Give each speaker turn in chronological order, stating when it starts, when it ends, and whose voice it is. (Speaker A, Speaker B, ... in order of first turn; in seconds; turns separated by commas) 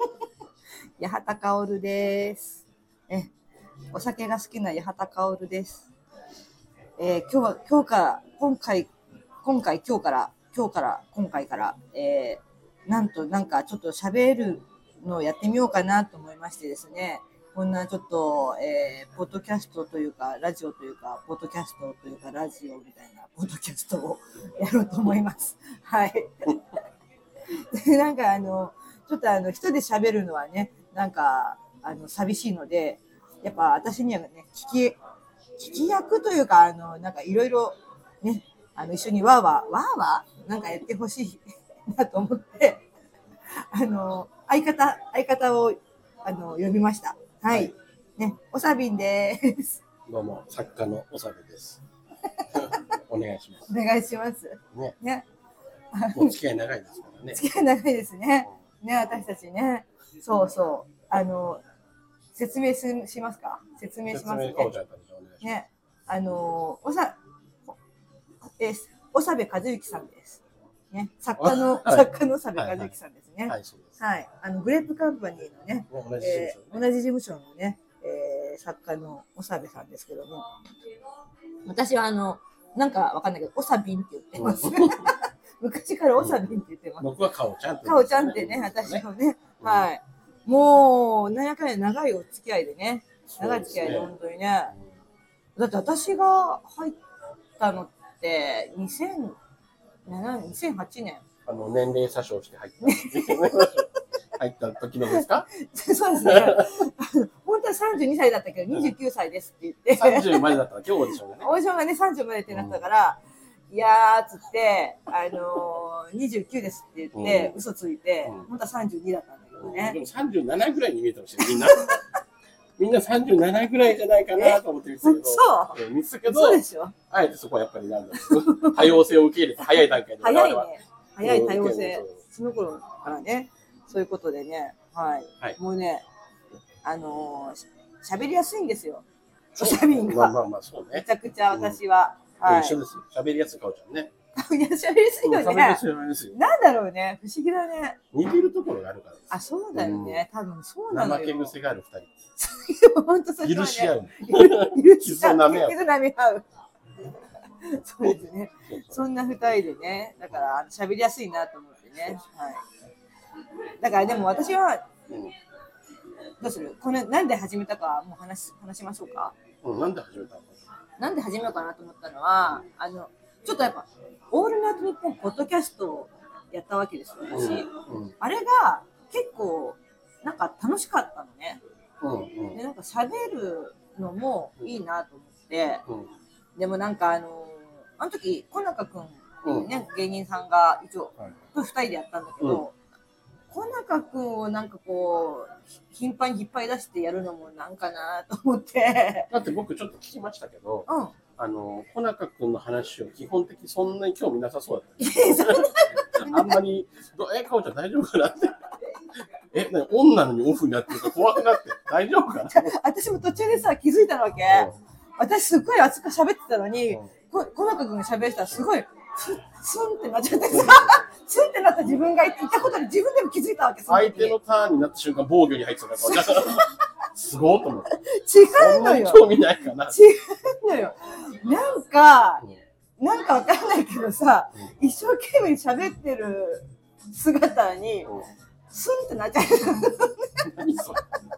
Speaker A: 1.0-3.3, Speaker A: 3.9-5.9, Speaker A: 7.0-8.9, Speaker A: 9.4-26.6, Speaker A: 27.7-35.0, Speaker A: 35.6-42.8, Speaker A: 43.7-49.8, Speaker B: 50.1-51.8, Speaker B: 52.5-53.7, Speaker A: 53.7-55.2, Speaker A: 55.9-56.3, Speaker B: 56.1-57.4, Speaker A: 57.3-61.6, Speaker A: 62.3-64.7, Speaker B: 64.1-65.4, Speaker A: 65.4-67.2, Speaker A: 68.6-80.4, Speaker B: 71.4-72.9, Speaker B: 73.5-73.9, Speaker B: 75.9-76.8, Speaker A: 81.7-87.1, Speaker B: 84.4-85.1, Speaker B: 86.2-89.0, Speaker A: 87.8-94.7, Speaker B: 89.6-89.9, Speaker B: 93.3-94.1, Speaker A: 95.6-97.0, Speaker A: 97.6-99.3, Speaker A: 100.1-101.2, Speaker B: 101.5-105.5, Speaker A: 102.8-103.8, Speaker A: 105.1-110.5, Speaker B: 106.2-106.7, Speaker B: 109.9-111.5, Speaker A: 111.4-113.2, Speaker B: 112.5-112.8, Speaker A: 113.7-120.0, Speaker B: 117.1-117.6, Speaker B: 119.6-122.0, Speaker A: 121.4-122.0, Speaker B: 122.8-130.7, Speaker A: 124.3-126.9, Speaker A: 128.2-129.0, Speaker A: 130.2-136.0, Speaker B: 131.2-132.2, Speaker A: 136.8-139.0, Speaker A: 139.5-140.4, Speaker B: 139.6-141.8, Speaker A: 140.9-142.8, Speaker B: 142.4-144.1, Speaker A: 144.4-145.8, Speaker B: 145.2-146.4, Speaker A: 146.3-148.0, Speaker B: 148.1-149.2, Speaker A: 149.3-151.5, Speaker B: 149.7-150.2, Speaker B: 150.9-152.1, Speaker A: 152.4-156.4, Speaker B: 153.4-155.8, Speaker A: 157.6-162.6, Speaker B: 158.0-159.0, Speaker A: 163.8-164.8, Speaker B: 165.1-165.3, Speaker A: 166.4-169.3, Speaker B: 169.6-170.6, Speaker A: 171.0-181.6, Speaker B: 177.3-178.1, Speaker B: 182.0-182.6, Speaker A: 182.5-185.8, Speaker A: 186.6-192.7, Speaker B: 189.4-189.7, Speaker A: 193.5-199.3, Speaker B: 199.3-200.9, Speaker A: 200.9-201.1, Speaker B: 201.4-208.6, Speaker A: 205.0-206.6, Speaker B: 209.5-212.7, Speaker A: 210.9-211.6, Speaker A: 212.4-224.3, Speaker B: 214.5-214.8, Speaker B: 220.5-221.0, Speaker B: 223.9-227.9, Speaker A: 226.0-226.7, Speaker A: 228.1-229.2, Speaker B: 228.5-230.0, Speaker A: 229.9-232.4, Speaker A: 233.0-238.1, Speaker A: 238.7-240.5, Speaker B: 240.4-241.0